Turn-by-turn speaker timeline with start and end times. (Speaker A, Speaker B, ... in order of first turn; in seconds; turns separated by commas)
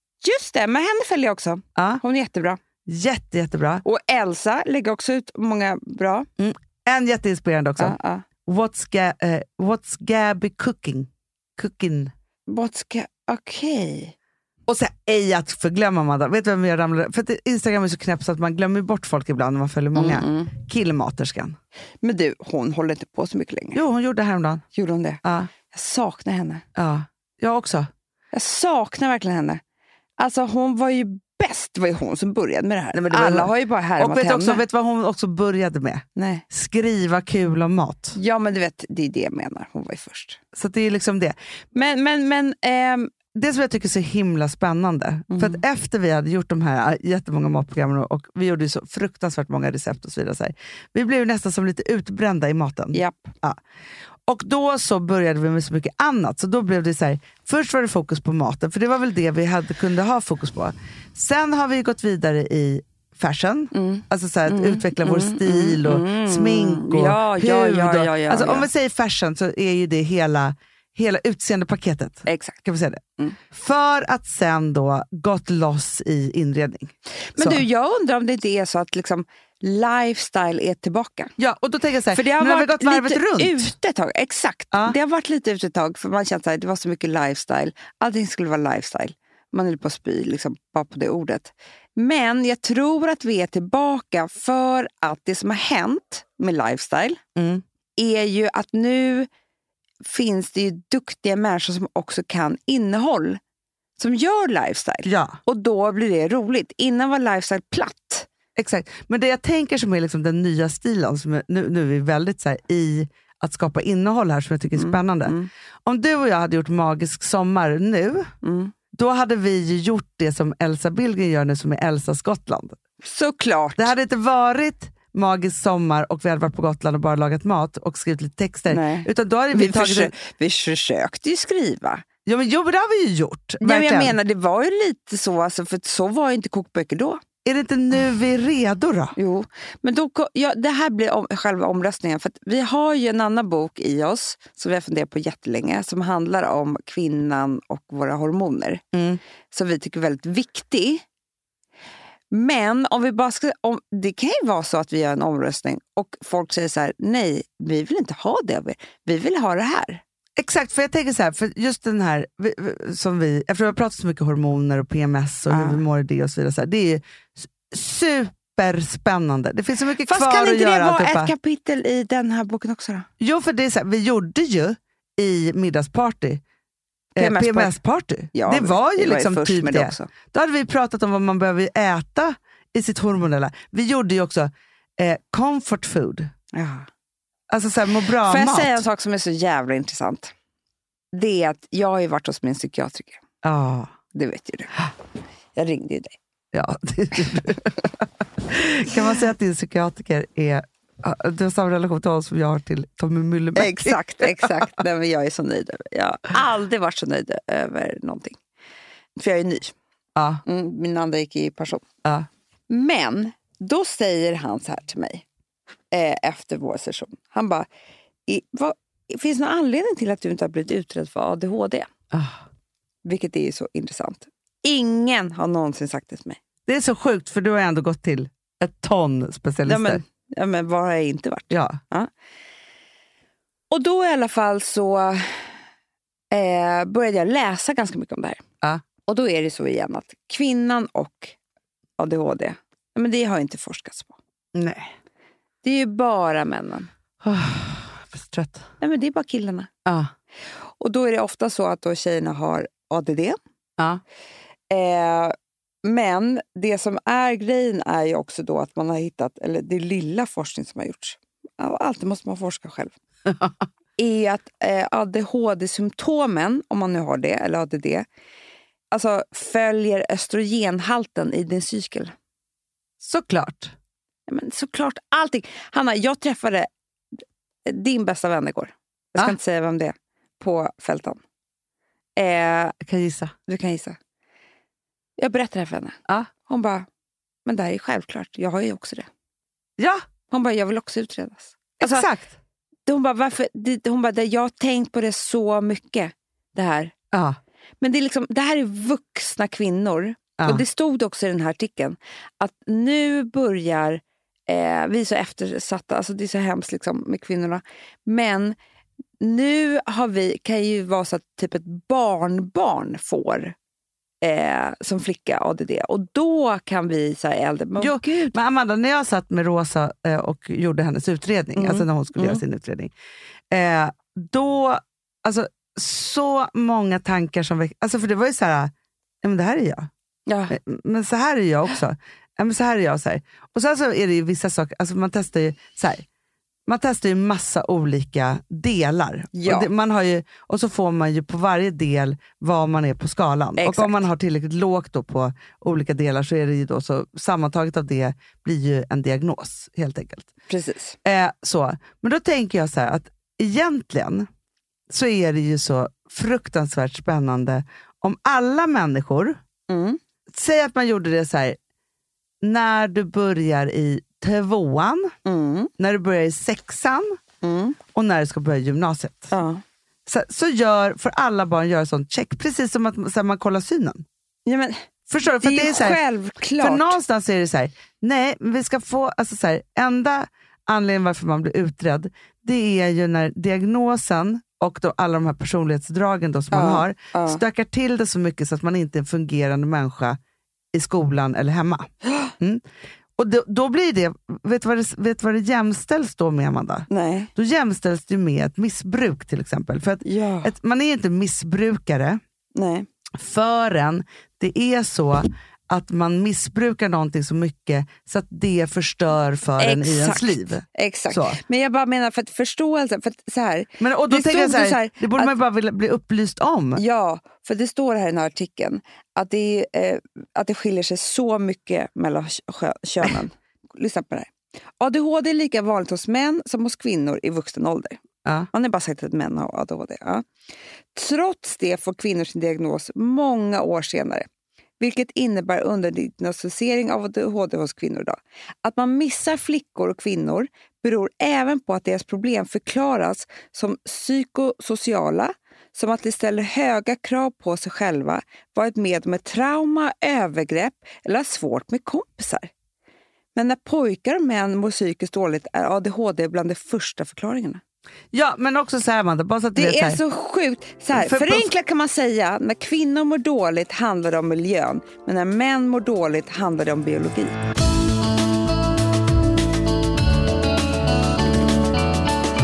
Speaker A: 0.2-2.6, Speaker B: 1.8-2.0, Speaker B: 2.9-3.8, Speaker A: 3.8-6.3, Speaker B: 6.4-12.1, Speaker A: 7.8-8.2, Speaker A: 12.5-14.1, Speaker B: 14.7-21.6, Speaker A: 19.9-20.5, Speaker A: 22.0-23.8, Speaker B: 23.7-24.6, Speaker A: 24.7-26.6, Speaker B: 25.2-25.5, Speaker B: 26.7-27.9, Speaker A: 28.3-29.6, Speaker A: 30.2-34.6, Speaker B: 32.9-38.2, Speaker A: 36.1-36.4, Speaker A: 38.1-40.4, Speaker B: 40.5-41.4, Speaker A: 41.7-43.1, Speaker B: 43.3-53.6, Speaker A: 45.3-45.6, Speaker A: 52.9-53.3, Speaker B: 54.3-77.6, Speaker A: 63.7-68.7, Speaker A: 72.2-72.6, Speaker A: 77.3-81.3, Speaker B: 81.4-83.7, Speaker A: 82.1-97.2, Speaker B: 97.3-97.6, Speaker A: 98.0-99.3, Speaker A: 100.0-103.4, Speaker A: 104.0-108.3, Speaker B: 105.0-105.4, Speaker B: 108.5-118.3, Speaker A: 114.7-115.5, Speaker A: 118.4-118.7, Speaker B: 118.9-122.8, Speaker A: 123.0-123.9, Speaker B: 123.8-130.1, Speaker A: 128.7-132.0, Speaker B: 132.2-134.2, Speaker A: 133.6-137.2, Speaker B: 137.4-139.1, Speaker A: 139.2-148.8, Speaker B: 148.9-149.2, Speaker A: 149.5-151.0, Speaker A: 152.3-160.0, Speaker B: 160.4-171.3, Speaker A: 165.5-165.8, Speaker A: 170.1-173.1, Speaker B: 173.2-176.4, Speaker A: 177.2-177.8, Speaker B: 177.2-186.3, Speaker A: 178.3-180.1, Speaker A: 186.5-186.9, Speaker B: 187.5-188.8, Speaker A: 188.2-190.3, Speaker A: 191.1-193.2, Speaker B: 193.4-193.9, Speaker A: 194.1-194.7, Speaker A: 195.6-196.2, Speaker B: 196.5-204.5, Speaker A: 203.6-208.4, Speaker A: 209.2-209.7, Speaker B: 210.2-210.4, Speaker A: 210.4-211.8, Speaker A: 212.7-215.2, Speaker A: 215.9-217.7, Speaker A: 218.3-221.9, Speaker B: 222.1-222.4, Speaker A: 223.0-226.4, Speaker B: 226.7-230.0, Speaker A: 229.6-232.1, Speaker B: 231.5-231.8, Speaker A: 233.7-235.5, Speaker A: 236.3-238.4, Speaker A: 239.1-241.3, Speaker A: 242.0-244.2, Speaker B: 244.5-244.9, Speaker A: 245.6-246.9, Speaker B: 247.2-248.6, Speaker A: 248.8-249.7, Speaker B: 249.8-250.1, Speaker A: 250.8-253.4, Speaker A: 254.7-262.9, Speaker B: 263.3-263.5, Speaker A: 264.0-268.1, Speaker A: 268.9-272.1, Speaker B: 273.0-273.7, Speaker A: 274.3-276.7, Speaker A: 277.6-281.2, Speaker A: 282.1-282.8, Speaker B: 282.8-283.3, Speaker A: 283.5-284.0, Speaker A: 285.2-286.9, Speaker A: 287.4-289.1, Speaker B: 289.8-290.0, Speaker A: 290.3-292.1, Speaker B: 291.8-292.4, Speaker A: 292.9-296.9, Speaker B: 297.1-297.4, Speaker A: 297.8-308.6, Speaker B: 300.4-300.6, Speaker A: 309.2-313.5, Speaker A: 314.2-318.3, Speaker B: 317.8-322.9, Speaker A: 321.5-322.4, Speaker B: 323.5-329.9, Speaker A: 330.3-330.6, Speaker B: 330.5-336.0, Speaker B: 336.7-350.3, Speaker A: 339.3-339.7, Speaker A: 343.6-344.0, Speaker A: 350.5-351.0, Speaker B: 351.0-354.3, Speaker B: 354.9-359.4, Speaker A: 359.7-360.0, Speaker B: 360.3-361.6, Speaker B: 362.4-365.1, Speaker A: 365.2-365.7, Speaker B: 365.8-367.2, Speaker A: 367.4-367.8, Speaker B: 367.9-369.3, Speaker A: 369.3-369.6, Speaker B: 370.1-374.1, Speaker A: 374.4-377.0, Speaker B: 375.1-376.0, Speaker B: 376.6-390.2, Speaker A: 386.5-387.4, Speaker B: 390.7-392.6, Speaker A: 392.1-392.3, Speaker B: 393.2-402.2, Speaker A: 396.9-397.3, Speaker A: 400.0-400.5, Speaker A: 402.5-402.9, Speaker B: 403.1-411.4, Speaker A: 409.6-415.3, Speaker B: 413.8-416.8, Speaker A: 416.8-428.0, Speaker A: 428.5-430.2, Speaker A: 430.9-434.2, Speaker A: 434.8-452.5, Speaker A: 453.3-457.6, Speaker B: 458.1-460.0, Speaker A: 459.5-467.4, Speaker B: 460.9-461.5